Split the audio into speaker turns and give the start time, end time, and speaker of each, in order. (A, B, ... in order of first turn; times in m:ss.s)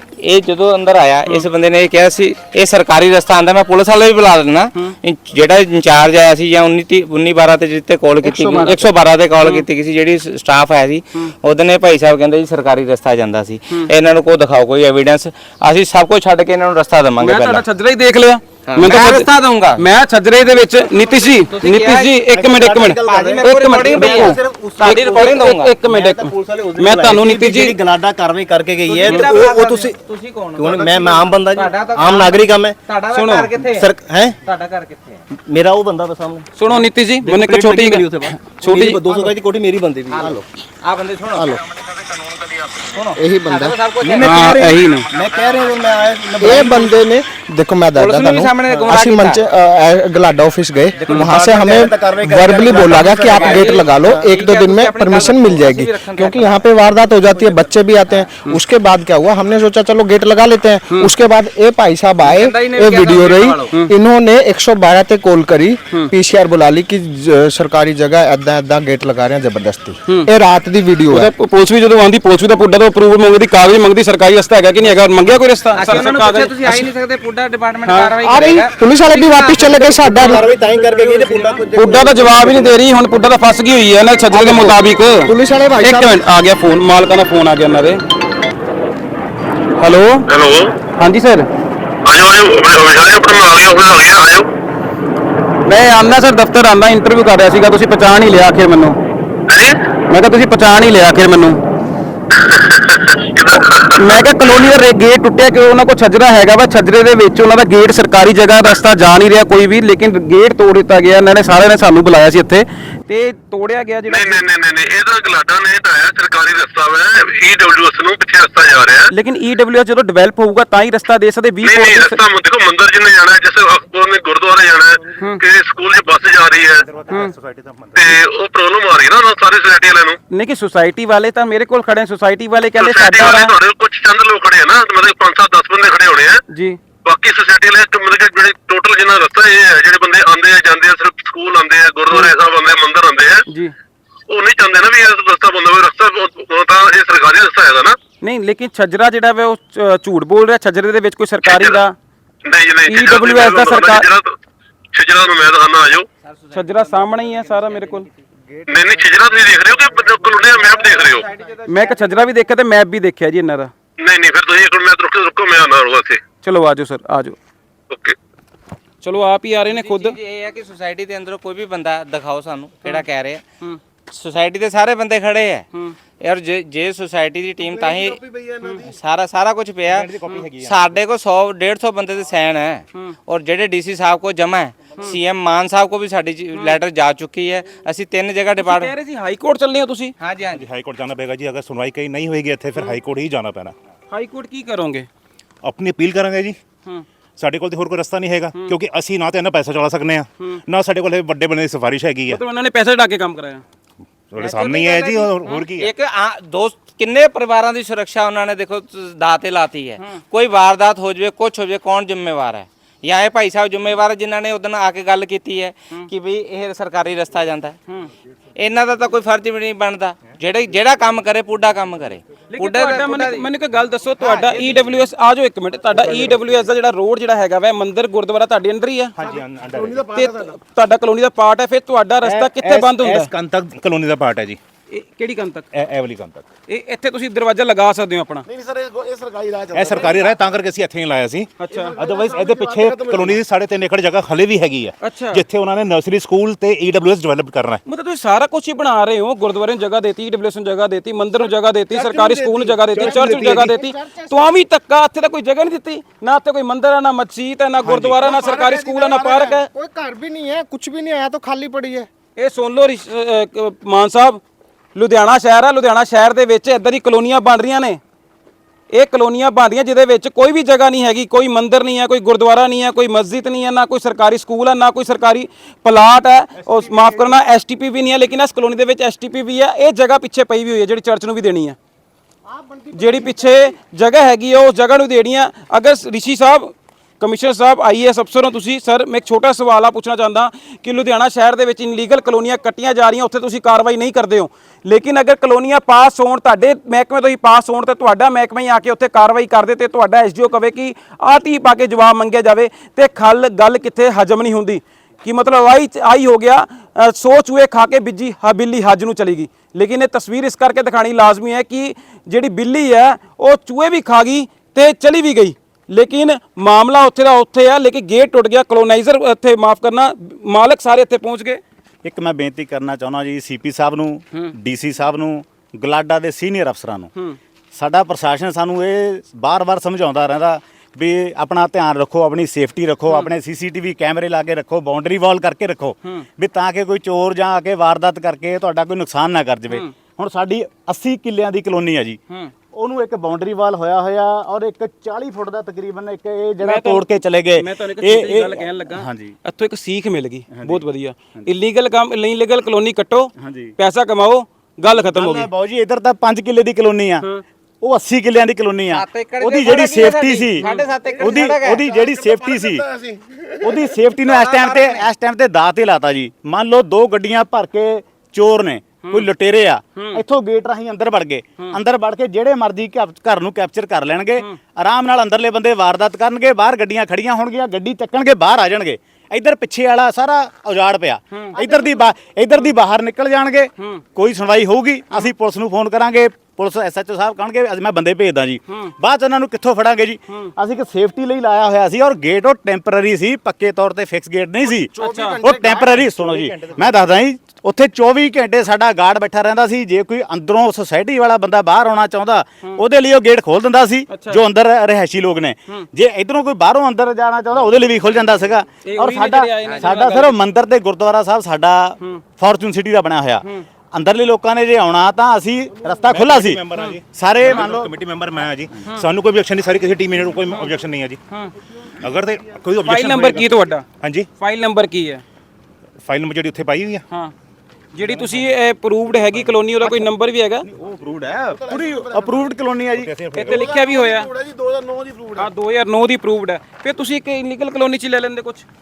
0:00.2-0:17.6 A
0:08.3-0:08.8 B
0:17.2-0:27.7 B
0:18.7-0:19.8 A
0:21.1-0:22.2 A
0:22.3-0:30.0 C
0:23.0-0:25.7 A
0:28.8-0:33.9 A
0:30.6-0:32.7 C
0:33.1-0:33.5 B
0:33.7-0:34.3 C
0:34.4-0:35.2 A
0:35.4-0:40.4 C
0:36.6-0:39.0 B
0:40.1-0:46.9 A
0:41.3-0:41.6 D
0:43.2-0:43.8 D
0:44.0-0:47.0 C
0:44.2-0:45.1 B
0:46.4-1:11.3 D
0:47.9-0:49.4 A
0:51.1-0:51.4 B
0:51.1-0:53.1 C
0:51.2-0:51.8 A
0:52.3-0:53.8 E
0:52.6-0:56.6 A
0:57.3-0:58.3 A
1:02.2-1:03.7 A
1:11.1-1:16.5 B
1:15.7-1:20.4 A
1:17.8-1:18.1 B
1:18.2-1:22.7 D
1:20.1-1:22.7 C
1:21.8-1:28.0 B
1:24.3-1:26.2 D
1:29.8-1:30.2 B
1:30.3-1:30.7 F
1:31.0-1:31.5 B
1:32.0-1:34.5 F
1:35.6-1:39.0 B
1:39.5-1:39.8 F
1:40.1-1:41.6 B
1:42.3-1:44.4 F
1:43.9-1:54.4 B
1:54.1-1:59.1 F
1:59.1-2:02.2 B
2:01.6-2:06.8 F
2:06.8-2:08.2 G
2:07.9-2:10.2 F
2:10.3-2:13.5 B
2:12.8-2:16.4 F
2:16.5-2:16.8 B
2:17.0-2:23.4 F
2:23.5-2:23.7 B
2:24.3-2:28.0 F
2:28.2-2:31.9 B
2:31.4-2:31.8 F
2:32.4-2:34.3 F
2:32.9-2:34.1 B
2:34.9-2:36.1 F
2:36.2-2:42.2 A
2:36.5-2:38.1 B
2:38.7-2:41.3 F
2:41.7-2:43.7 B
2:44.0-2:46.2 F
2:46.4-2:47.4 B
2:47.9-2:48.2 F
2:49.0-2:50.2 B
2:49.7-2:53.4 A
2:54.1-2:55.6 A
2:56.2-2:58.2 A
2:57.6-2:58.9 E
2:58.8-3:08.9 A
2:59.9-3:00.9 G
3:08.6-3:10.1 B
3:10.2-3:10.6 A
3:10.5-3:13.7 G
3:14.1-3:15.1 B
3:15.6-3:16.6 G
3:17.4-3:22.4 G
3:22.3-3:23.6 B
3:24.3-3:25.9 G
3:24.4-3:37.8 A
3:38.6-3:43.5 A
3:42.5-3:49.2 B
3:44.3-3:44.8 A
3:46.0-3:46.4 G
3:49.2-3:50.0 G
3:49.2-3:50.6 E
3:50.1-3:53.3 B
3:52.2-3:54.6 G
3:54.9-3:55.7 B
3:55.7-3:56.4 G
3:56.7-3:58.4 B
3:58.4-4:00.4 E
3:59.7-4:07.8 G
4:01.6-4:02.0 B
4:01.7-4:03.4 E
4:05.0-4:05.4 B
4:07.8-4:19.7 B
4:11.9-4:13.7 E
4:12.9-4:14.5 D
4:18.0-4:22.1 D
4:22.4-4:24.4 B
4:24.9-4:28.0 B
4:28.9-4:41.8 B
4:42.5-4:43.7 D
4:42.9-5:21.6 B
5:22.0-5:27.1 H
5:27.7-5:42.2 H
5:42.7-5:49.3 H
5:46.6-5:55.5 B
5:50.5-5:51.5 H
5:53.4-5:53.7 H
5:54.9-5:57.2 H
5:57.8-6:00.6 H
5:58.9-6:01.8 A
6:00.6-6:00.9 B
6:01.0-6:03.8 E
6:01.2-6:02.8 H
6:03.6-6:56.6 H
6:04.2-6:05.1 A
6:10.0-6:10.2 B
6:21.3-6:21.7 B
6:21.6-6:22.1 D
6:34.7-6:36.5 D
6:35.0-6:35.4 B
6:44.1-6:44.4 B
6:48.8-6:50.4 B
6:56.0-7:01.2 G
6:56.8-6:57.6 B
6:57.1-6:57.9 H
7:02.0-7:04.3 G
7:02.8-7:03.8 B
7:04.4-7:05.2 B
7:06.0-7:07.0 G
7:07.9-7:10.7 B
7:10.7-7:13.1 H
7:11.5-7:12.5 E
7:12.9-7:13.7 G
7:13.3-7:14.3 B
7:13.4-7:15.5 E
7:15.4-7:18.6 B